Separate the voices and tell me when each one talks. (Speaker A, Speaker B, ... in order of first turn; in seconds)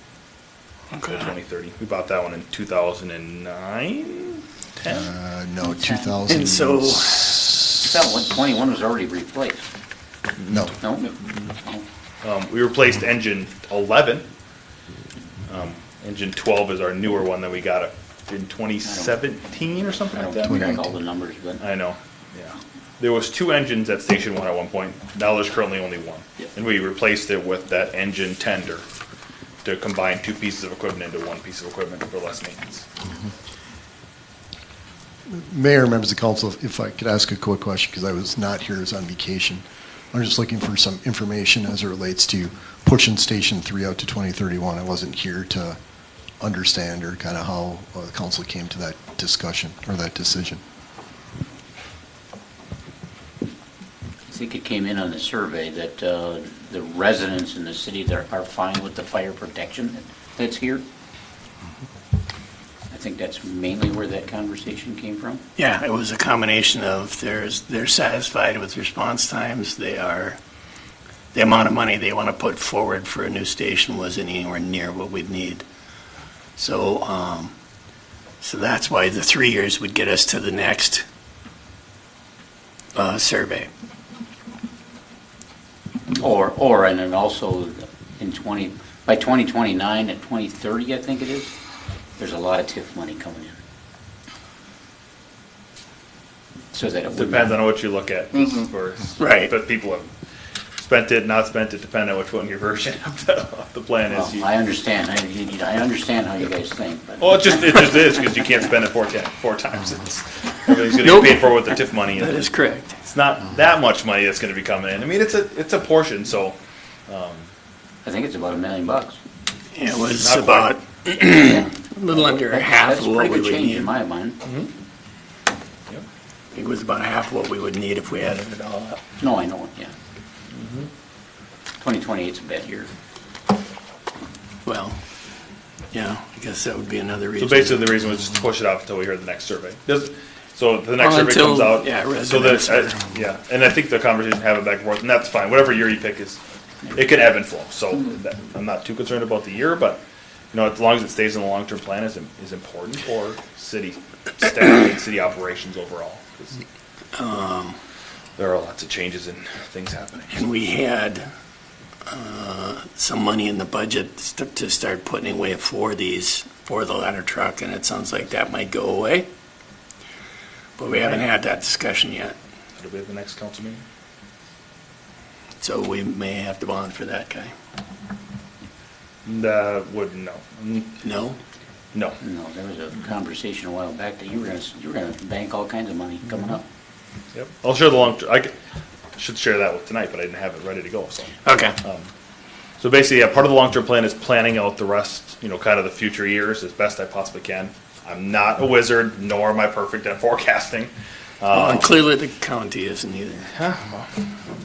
Speaker A: 0.9-1.3, 6.3-7.8, 65.6-70.4, 71.3-75.6, 76.6-77.5, 78.4-81.0, 83.0-83.7, 99.2-99.5, 111.0-111.5, 112.2-113.0, 119.7-123.9, 126.5-129.1, 134.7-135.0, 135.9-137.9, 141.0-143.0, 157.2-157.8, 160.3-161.3, 162.1-169.3, 170.8-172.4, 175.6-177.5, 181.0-181.4, 191.4-191.8, 201.5-203.5
Speaker B: 1.1-5.1, 12.2-14.2, 15.5-20.8, 21.6-28.9, 29.6-32.9, 97.1-100.1, 100.8-104.5, 107.2-112.5, 113.0-116.6, 117.1-117.5, 120.1-120.8, 124.4-124.7, 130.5-130.9, 137.4-146.4, 146.9-150.0, 150.5-156.6, 158.4-160.4, 172.8-173.8, 179.2-181.0, 181.9-182.2, 187.3-188.5, 189.2-192.1, 192.8-201.9, 203.5-204.1
Speaker C: 4.8-7.7, 10.4-10.8, 20.5-20.9, 35.3-45.8, 46.4-50.6
Speaker D: 5.6-6.2, 7.8-9.6, 10.8-11.8, 18.8-19.2, 20.1-21.6, 54.3-60.8, 62.9-65.4, 86.1-91.5, 92.2-93.6, 96.7-97.6, 104.1-108.0, 118.0-119.2, 121.2-124.4, 129.2-129.9, 131.8-132.9, 182.2-186.6